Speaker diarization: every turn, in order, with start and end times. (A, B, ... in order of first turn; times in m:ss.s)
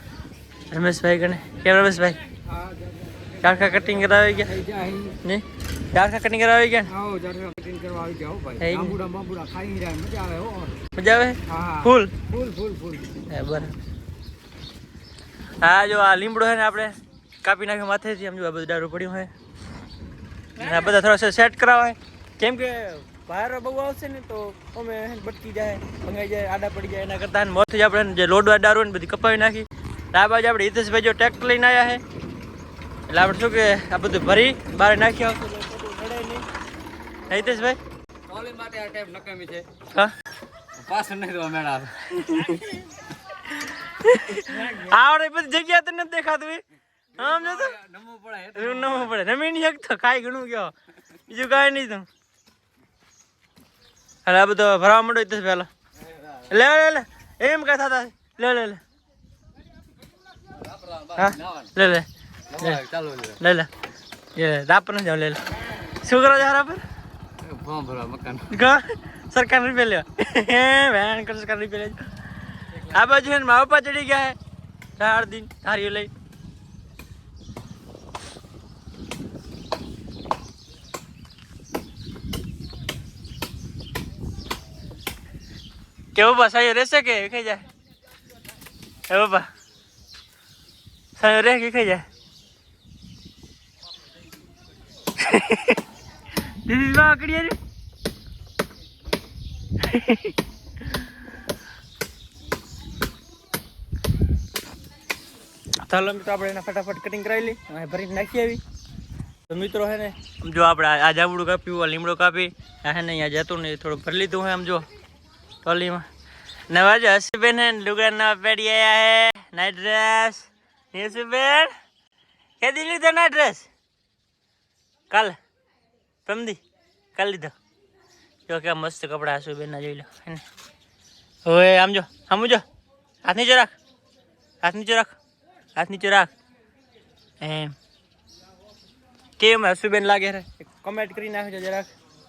0:00.7-0:02.2 A
0:02.5-0:05.2 B
0:03.4-0:04.6 A
0:05.2-0:06.9 A
0:06.9-0:10.8 B
0:08.6-0:09.0 A
0:10.9-0:12.1 A
0:11.5-0:13.2 B
0:13.3-0:13.8 A
0:15.6-0:19.3 A
0:20.6-0:32.0 A
0:33.1-0:36.4 A
0:37.3-0:37.8 A
0:38.3-0:39.7 B
0:40.8-0:42.6 B
0:42.1-0:42.8 A
0:43.4-0:46.6 A
0:47.1-0:47.8 A
0:47.2-0:49.1 B
0:48.5-0:52.1 A
0:54.2-0:55.7 A
0:56.4-0:58.8 A
1:00.5-1:01.7 B
1:01.1-1:02.8 A
1:02.5-1:03.4 B
1:03.4-1:03.7 A
1:04.4-1:06.8 A
1:07.4-1:08.5 B
1:08.5-1:12.1 A
1:12.7-1:14.4 A
1:15.0-1:16.1 A
1:26.2-1:27.6 A
1:29.1-1:29.5 A
1:31.2-1:32.0 A
1:35.2-1:35.8 A
1:36.4-1:37.6 A
1:39.8-1:40.4 A
1:45.8-1:48.6 A
1:49.5-1:54.9 A
1:55.6-1:56.1 A
1:56.7-2:01.7 A
2:02.6-2:03.7 A
2:05.1-2:05.4 A
2:06.2-2:06.6 A
2:07.2-2:07.5 A
2:08.5-2:10.4 A
2:11.5-2:12.6 A
2:13.2-2:13.7 A
2:14.6-2:15.2 A
2:15.8-2:16.3 A
2:17.4-2:17.8 A
2:19.4-2:21.9 A